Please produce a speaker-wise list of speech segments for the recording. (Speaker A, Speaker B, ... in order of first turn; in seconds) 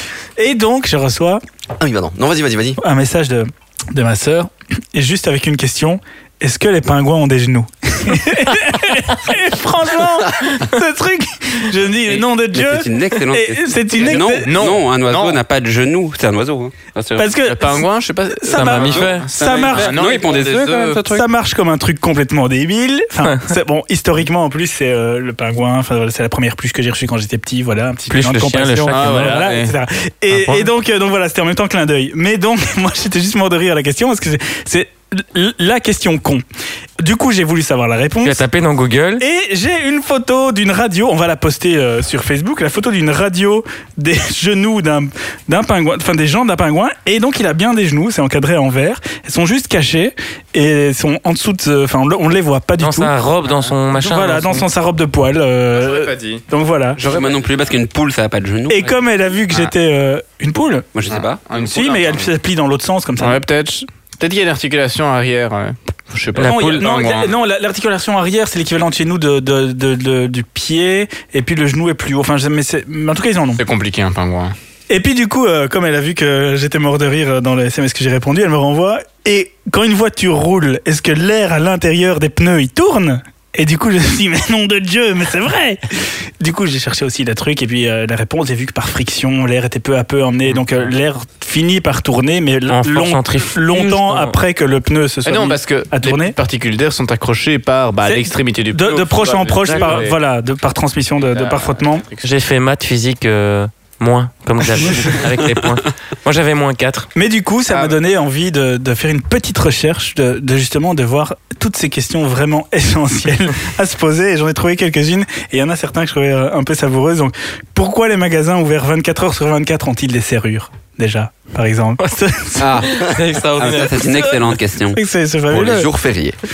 Speaker A: 0.4-1.4, 2.8-14.5, 17.2-20.0, 21.0-36.4, 37.0-38.4, 39.2-53.1, 54.0-57.0, 58.7-60.9, 61.5-63.4, 66.4-73.6, 74.9-96.4, 98.0-102.0, 107.2-122.9, 124.9-125.9
Speaker B: 1.8-2.8, 125.5-126.4
Speaker C: 12.1-17.3, 18.9-21.2, 57.0-59.0, 60.9-61.4, 122.6-125.0
Speaker D: 14.0-15.4, 17.4-21.1, 28.9-29.7, 55.8-56.4, 57.0-57.4, 61.1-62.3, 63.2-67.3, 73.6-74.5, 95.2-100.2, 101.3-102.3, 107.7-108.0
Speaker E: 18.5-19.4, 28.1-29.4, 30.3-30.7, 38.2-39.2, 52.8-54.7, 66.4-66.9, 92.7-94.4, 99.7-100.0, 102.2-107.1, 122.7-124.5